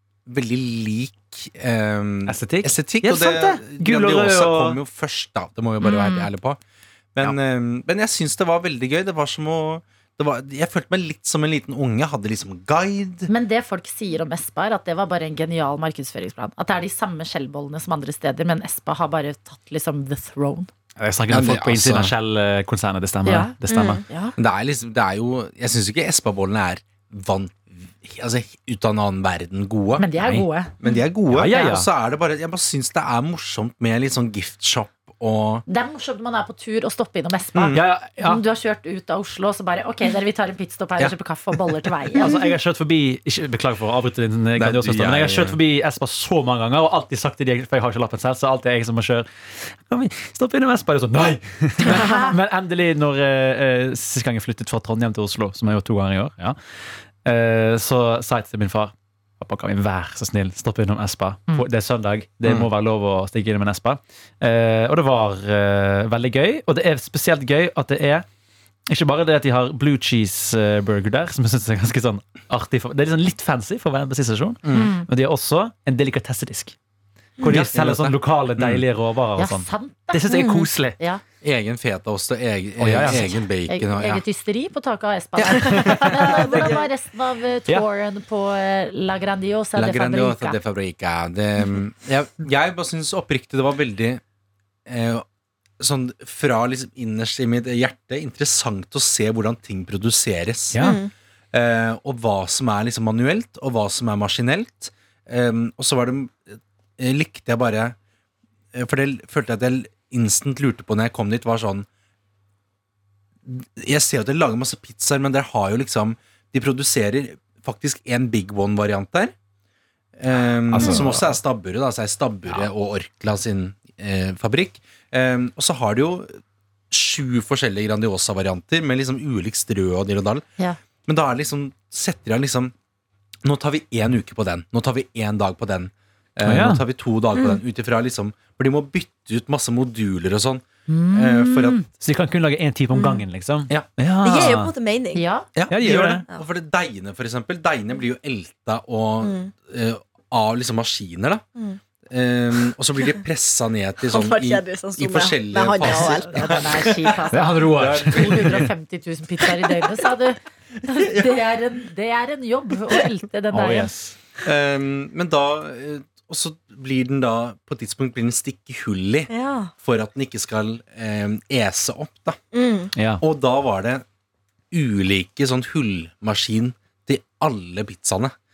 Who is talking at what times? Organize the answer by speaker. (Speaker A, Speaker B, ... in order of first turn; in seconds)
Speaker A: 0.3-6.6, 7.2-13.3, 21.3-22.1, 24.4-30.1, 30.8-35.6, 37.5-37.9, 44.6-45.6, 74.6-74.9, 77.4-78.8, 81.4-84.2, 89.8-94.2, 94.9-95.2, 95.8-100.9, 101.5-108.0, 108.7-111.9, 113.5-119.3, 120.2-126.4, 126.9-130.5, 131.1-132.7, 133.4-141.8, 145.6-151.4, 152.1-157.1, 157.7-158.7, 161.0-161.4, 164.4-172.4, 173.2-174.1, 174.7-178.3
Speaker B: 2.3-4.8, 21.0-24.0, 30.2-30.5, 31.3-31.9, 37.7-38.4, 42.2-56.6, 57.2-68.3, 68.9-76.8, 77.4-81.0, 82.8-83.3, 85.5-86.8, 100.7-101.0, 120.7-121.4, 136.4-136.8, 142.0-144.7, 145.7-146.2, 157.3-158.7, 163.5-164.2, 172.9-173.2
Speaker C: 5.8-6.3, 13.3-20.7, 23.2-23.5, 24.1-24.4, 30.0-30.7, 35.7-42.3, 51.9-52.3, 74.7-75.1, 79.4-81.2, 83.0-90.6, 140.9-141.9, 145.2-145.5, 155.8-163.9
Speaker D: 23.7-24.0, 80.3-80.7, 100.8-101.1, 142.9-143.2, 144.2-145.2, 149.2-149.5, 154.0-156.9, 169.3-169.7, 172.5-172.9